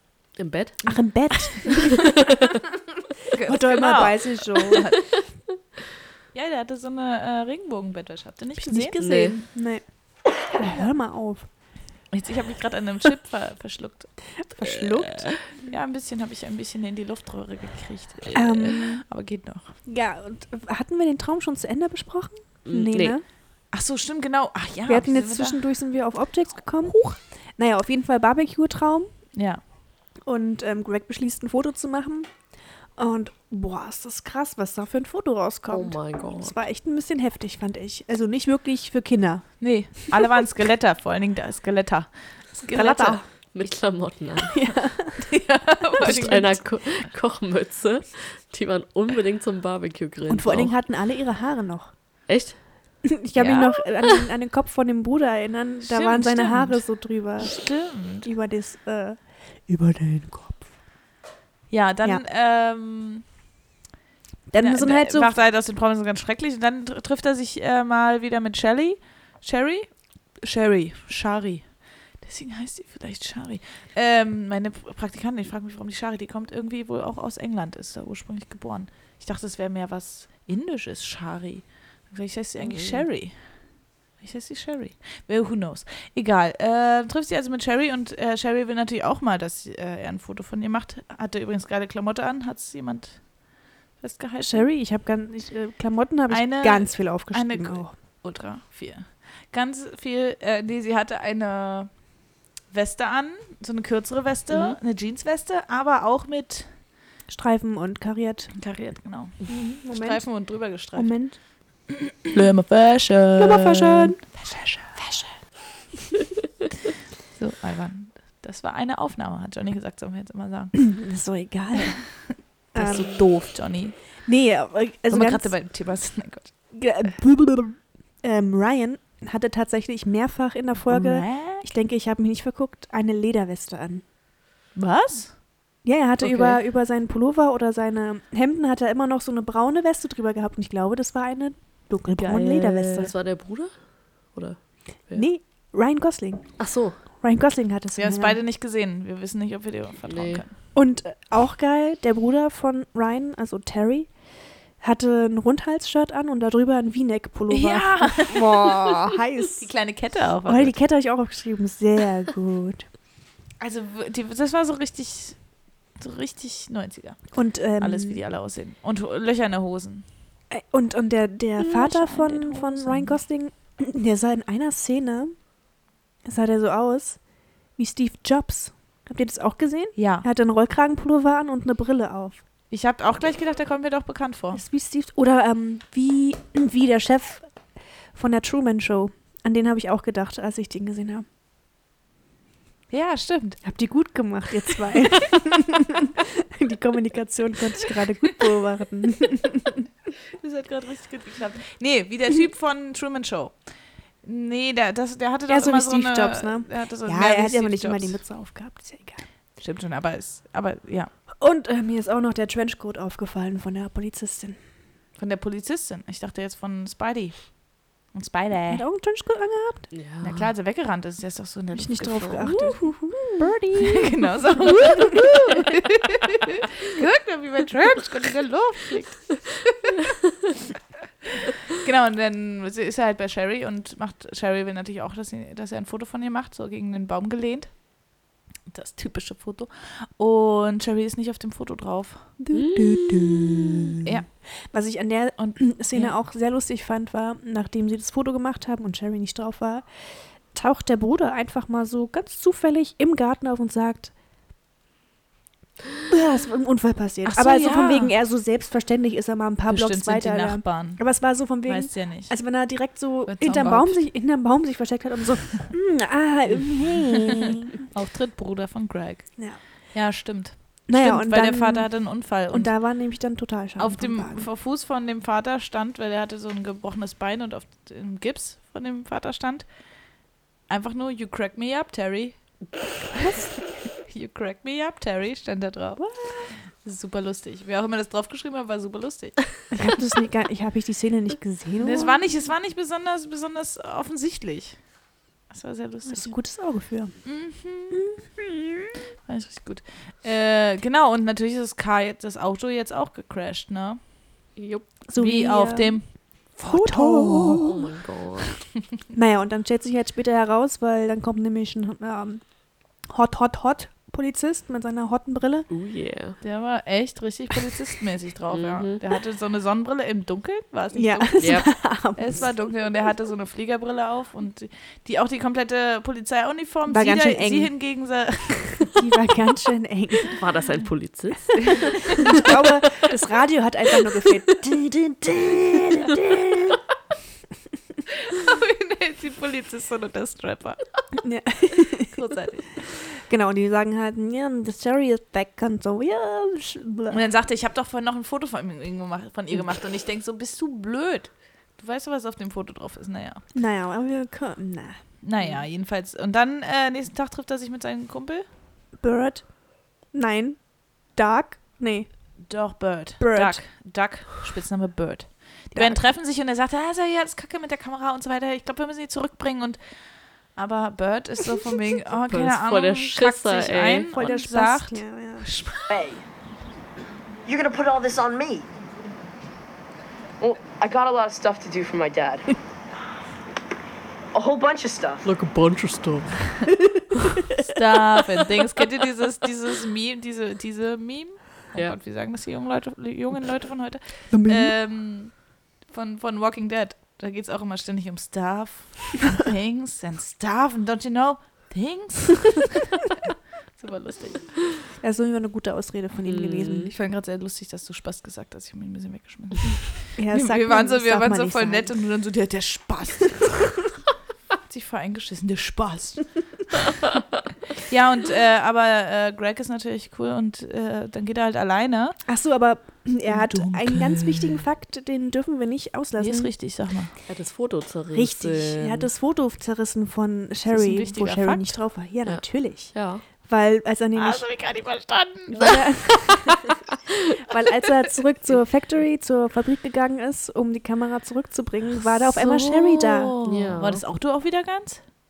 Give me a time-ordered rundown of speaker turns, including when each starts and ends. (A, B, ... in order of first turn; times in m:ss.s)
0:00.4-0:01.0 A
0:00.9-0:02.1 B
0:03.3-0:05.0 C
0:03.4-0:04.9 B
0:06.3-0:09.0 C
0:08.6-0:11.5 B
0:09.0-0:09.4 A
0:12.1-0:19.7 C
0:14.4-0:15.4 B
0:18.3-0:19.0 B
0:19.9-0:23.2 B
0:22.7-0:23.2 A
0:23.7-0:25.6 C
0:24.9-0:27.0 B
0:26.9-0:27.2 C
0:27.6-0:29.1 B
0:29.4-0:29.6 C
0:30.2-0:32.3 B
0:33.0-0:39.9 B
0:35.7-0:36.6 A
0:39.6-0:43.2 C
0:42.7-0:43.2 B
0:43.5-0:44.6 A
0:44.5-0:45.3 B
0:45.2-0:46.8 C
0:46.0-0:50.7 A
0:46.0-0:46.4 B
0:50.3-0:51.9 B
0:52.3-0:52.6 A
0:53.0-1:00.7 B
0:53.4-0:53.6 C
0:55.8-0:56.8 C
0:57.4-0:58.3 C
1:01.7-1:03.2 C
1:04.5-1:05.3 B
1:04.6-1:23.6 C
1:22.6-1:23.0 A
1:24.2-1:33.4 C
1:34.0-1:34.7 C
1:34.4-1:37.9 B
1:36.3-1:41.9 C
1:42.7-1:46.7 C
1:47.3-1:48.5 B
1:48.5-1:51.1 C
1:49.5-1:51.4 B
1:52.3-1:55.2 C
1:53.4-1:54.2 B
1:57.4-2:00.9 C
2:00.8-2:03.3 B
2:02.7-2:04.0 C
2:04.2-2:05.5 B
2:05.1-2:06.5 C
2:06.7-2:14.0 B
2:10.9-2:11.7 C
2:14.7-2:15.4 C
2:15.8-2:23.1 B
2:16.2-2:16.6 A
2:22.2-2:22.5 C
2:22.4-2:25.3 A
2:25.1-2:28.4 B
2:26.6-2:27.0 A
2:28.0-2:30.5 C
2:30.1-2:30.4 A
2:30.7-2:34.1 B
2:34.8-2:39.7 B
2:37.5-2:38.4 C
2:39.6-2:40.7 C
2:40.4-2:42.9 B
2:43.6-2:45.4 C
2:46.0-2:50.1 C
2:47.3-2:48.2 B
2:50.5-2:55.4 B
2:51.6-2:53.2 C
2:56.2-2:57.2 B
2:57.8-3:02.4 B
3:00.0-3:00.3 C
3:02.7-3:04.6 C
3:04.5-3:07.5 B
3:08.1-3:11.2 B
3:12.9-3:13.6 C
3:13.6-3:19.9 B
3:20.4-3:28.2 C
3:25.5-3:29.2 B
3:29.6-3:31.1 C
3:31.4-3:34.6 B
3:35.2-3:38.8 C
3:38.7-3:39.9 B
3:39.9-3:40.5 A
3:40.2-3:42.8 C
3:41.7-3:45.5 B
3:43.8-3:49.7 C
3:51.7-3:57.8 C
3:58.7-4:02.3 C
4:02.4-4:04.1 B
4:02.5-4:03.9 A
4:04.7-4:14.1 B
4:05.4-4:06.1 C
4:16.1-4:27.8 B
4:17.2-4:18.1 C
4:19.7-4:22.4 C
4:23.3-4:24.0 C
4:27.9-4:32.7 C
4:30.9-4:34.5 B
4:33.8-4:39.7 C
4:40.7-4:42.4 C
4:43.1-4:43.5 C
4:43.2-4:43.5 B
4:44.0-4:46.0 C
4:46.0-4:46.5 B
4:46.8-4:49.6 C
4:49.7-4:52.3 B
4:51.8-4:54.8 C
4:55.5-4:56.4 C
4:56.1-4:57.4 B
4:57.2-4:58.0 C
4:57.9-4:58.8 B
4:59.3-5:04.0 C
5:04.6-5:04.9 A
5:05.1-5:07.9 B
5:05.2-5:06.1 C
5:06.7-5:08.6 A
5:09.1-5:12.4 B
5:13.1-5:15.7 B
5:15.7-5:16.4 A
5:16.4-5:28.9 C
5:18.5-5:19.0 A
5:21.0-5:22.5 B
5:21.4-5:21.7 A
5:26.9-5:27.7 B
5:28.9-5:30.3 B
5:30.3-5:32.3 A
5:32.1-5:36.8 B
5:38.1-5:40.8 C
5:41.2-5:42.2 B
5:42.1-5:43.0 C
5:42.8-5:47.2 B
5:47.1-5:53.4 C
5:53.5-5:55.6 B
5:55.2-5:58.4 C
5:59.0-5:59.5 B
6:00.1-6:02.1 B
6:02.4-6:09.8 C
6:03.2-6:03.6 B
6:05.7-6:06.0 B
6:10.6-6:15.9 C
6:12.3-6:14.3 A
6:14.1-6:15.5 B
6:15.9-6:16.2 D
6:17.4-6:18.7 D
6:20.4-6:22.6 D
6:24.3-6:25.3 D
6:25.2-6:27.4 A
6:27.6-6:43.0 C
6:34.3-6:34.7 B
6:43.7-6:44.6 C
6:45.0-6:46.9 B
6:46.3-6:46.9 A
6:46.9-6:53.8 C
6:50.2-6:52.0 B
6:54.7-6:56.3 C
6:57.8-7:02.2 C
7:02.3-7:06.5 B
7:03.3-7:04.6 C
7:06.2-7:07.1 C
7:07.3-7:09.1 A
7:08.1-7:14.5 B
7:10.7-7:11.8 C
7:12.2-7:13.2 A
7:14.2-7:16.4 C
7:15.5-7:16.7 B
7:17.4-7:23.3 B
7:22.2-7:25.0 C
7:23.4-7:24.0 A